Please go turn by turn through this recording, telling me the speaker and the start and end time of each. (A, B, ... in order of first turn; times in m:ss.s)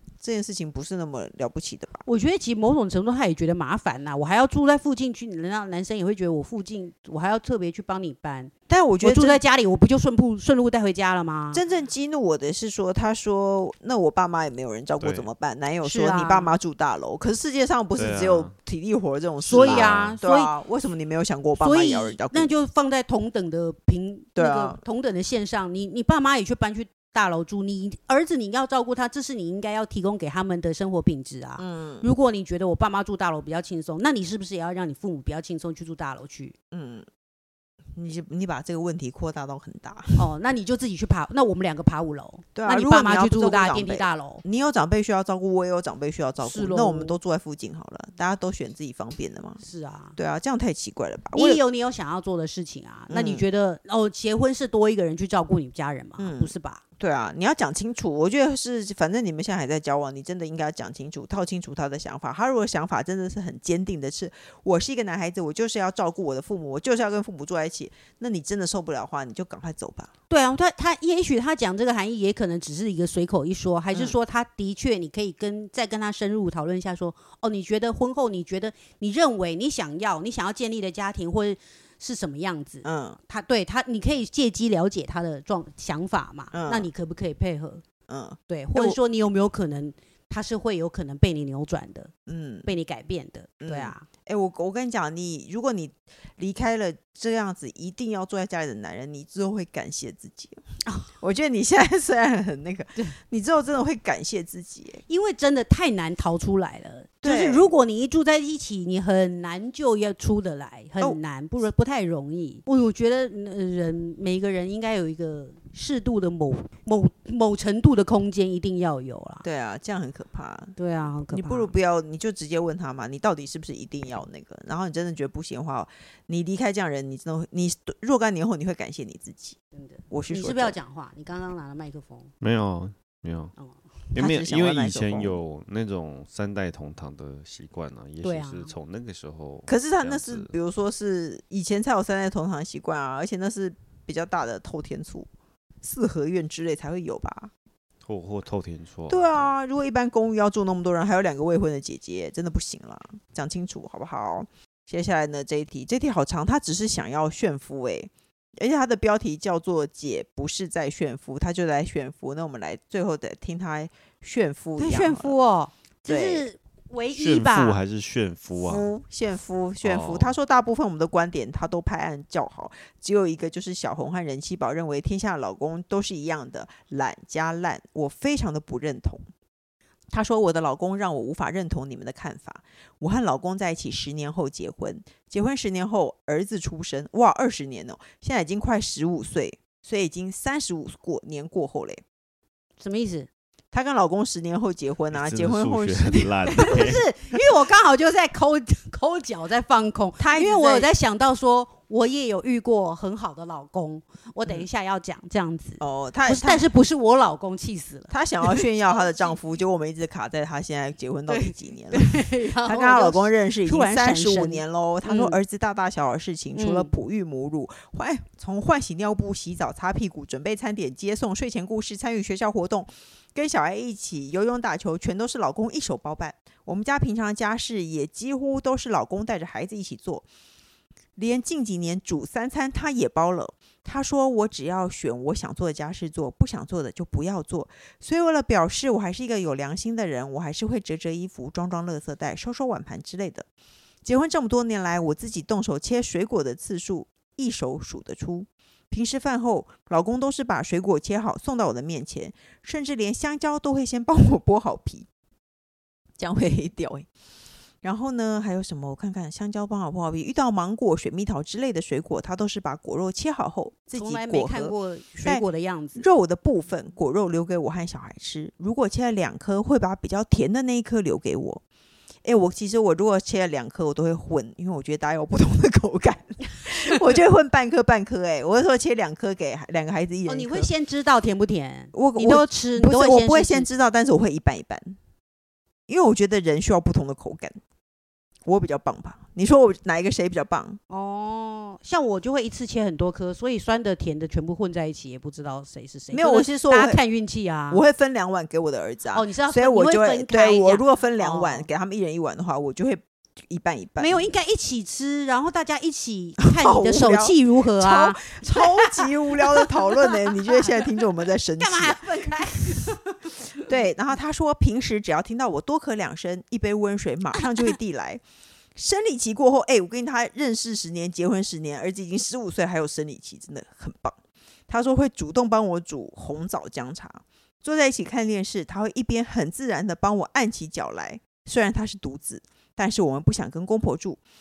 0:00.2-0:02.0 A
0:02.0-0:11.6 B
0:08.7-0:09.4 A
0:11.5-0:22.5 A
0:15.0-0:15.3 C
0:15.8-0:16.5 B
0:18.0-0:18.5 C
0:19.4-0:20.5 B
0:19.4-0:20.2 C
0:21.6-0:36.6 B
0:24.4-0:24.8 A
0:31.6-0:32.1 A
0:36.7-0:37.1 A
0:38.0-0:40.3 A
0:40.2-0:44.4 B
0:42.6-0:49.6 A
0:46.4-0:47.2 B
0:49.6-0:50.2 B
0:50.2-0:51.6 A
0:51.3-0:56.8 B
0:53.1-0:53.4 A
0:56.2-1:10.1 A
1:10.3-1:27.8 B
1:22.8-1:23.2 A
1:26.5-1:26.9 A
1:28.1-1:29.0 A
1:28.5-1:32.1 B
1:32.3-1:32.7 A
1:32.6-1:34.1 B
1:33.6-1:40.6 A
1:41.2-1:45.0 A
1:45.1-1:59.4 B
1:47.2-1:47.7 A
1:59.4-2:00.7 A
2:00.8-2:01.7 B
2:01.3-2:09.6 A
2:09.8-2:12.3 B
2:10.1-2:10.8 A
2:12.4-2:13.5 C
2:13.6-2:14.0 B
2:14.1-2:20.5 C
2:14.2-2:15.4 A
2:18.2-2:18.7 B
2:19.7-2:25.3 A
2:25.8-2:27.5 A
2:28.0-2:29.5 C
2:29.1-2:45.4 A
2:44.8-2:47.8 B
2:46.1-2:46.5 A
2:47.2-2:48.9 C
2:48.6-2:59.2 A
2:49.8-2:50.3 C
3:00.1-3:12.0 A
3:12.8-3:13.3 B
3:13.7-3:16.8 A
3:15.1-3:17.0 C
3:16.5-3:29.1 B
3:20.2-3:20.9 A
3:25.8-3:26.6 A
3:28.1-3:50.2 A
3:31.3-3:35.4 B
3:36.6-3:36.9 B
3:51.2-4:03.5 A
4:04.0-4:15.1 A
4:16.2-4:17.1 A
4:17.8-4:25.4 A
4:23.9-4:26.1 B
4:26.0-4:31.6 A
4:32.2-4:40.7 A
4:40.3-4:43.7 B
4:41.9-4:45.0 A
4:45.9-4:47.6 A
4:48.4-4:50.8 A
4:50.9-4:57.8 B
4:56.1-4:57.0 A
4:57.7-5:04.3 A
4:59.1-5:01.7 B
5:04.0-5:10.7 B
5:06.4-5:12.8 A
5:11.6-5:13.4 B
5:13.6-5:18.2 A
5:17.4-5:17.8 B
5:18.8-5:24.2 A
5:24.7-5:34.2 A